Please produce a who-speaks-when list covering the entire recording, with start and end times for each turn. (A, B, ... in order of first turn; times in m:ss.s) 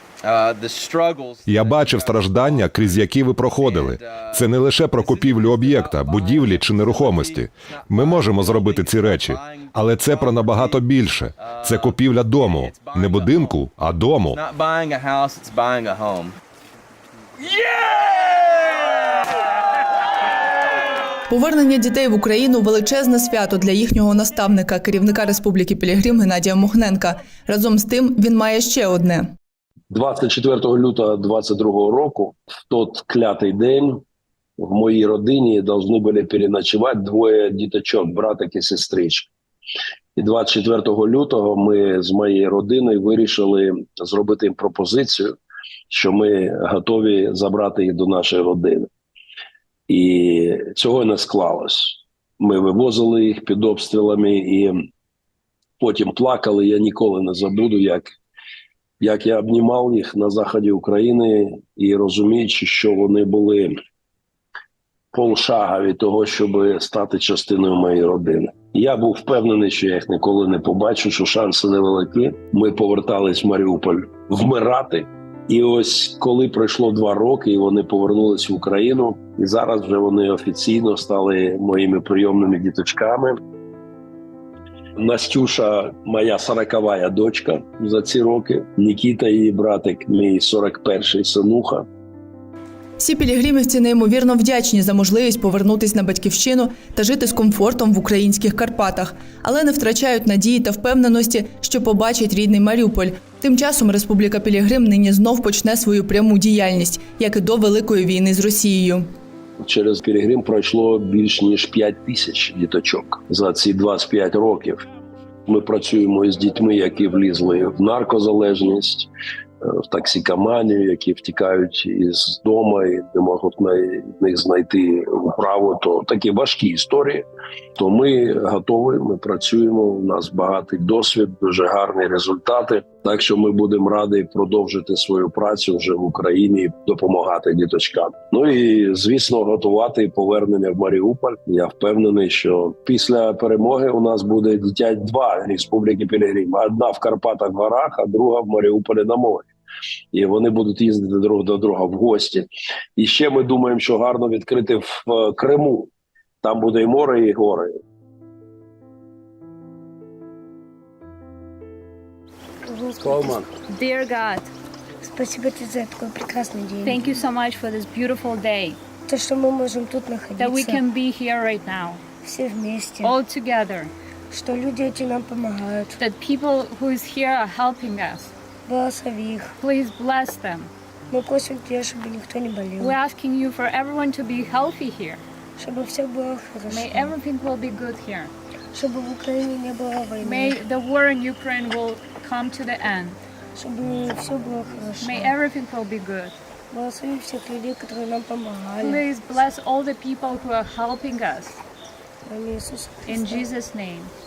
0:00.2-0:13.6 A
0:01.4-0:14.4 B
0:14.3-0:16.4 A
0:21.3-0:29.3 C
0:29.9-0:34.0 D
0:34.6-0:39.3 D
0:40.2-0:45.3 D
0:45.9-0:48.9 D
0:49.9-0:54.8 D
0:55.8-0:58.1 D
0:59.0-1:03.7 D
1:05.1-1:23.4 D
1:25.0-1:31.8 D
1:33.0-1:49.0 C
1:49.6-1:54.8 D
1:55.4-1:59.1 D
1:59.6-2:07.2 D
2:07.8-2:29.5 D
2:30.1-2:35.9 D
2:36.4-2:37.7 D
2:42.6-2:43.4 E
2:43.0-2:43.5 D
2:43.7-2:44.5 F
2:45.0-2:47.2 E
2:46.8-2:48.8 F
2:49.1-2:50.8 E
2:50.4-2:52.0 F
2:52.2-2:53.2 E
2:53.0-2:53.9 F
2:54.3-2:56.0 E
2:56.0-2:58.3 F
2:58.6-2:59.5 E
2:59.6-3:00.7 F
3:01.1-3:03.0 E
3:02.8-3:05.2 F
3:05.6-3:07.1 E
3:06.7-3:08.3 F
3:08.7-3:10.6 E
3:10.2-3:13.2 F
3:13.5-3:15.4 E
3:15.0-3:16.4 F
3:16.7-3:19.0 E
3:18.8-3:21.6 F
3:22.2-3:23.5 E
3:23.0-3:24.1 F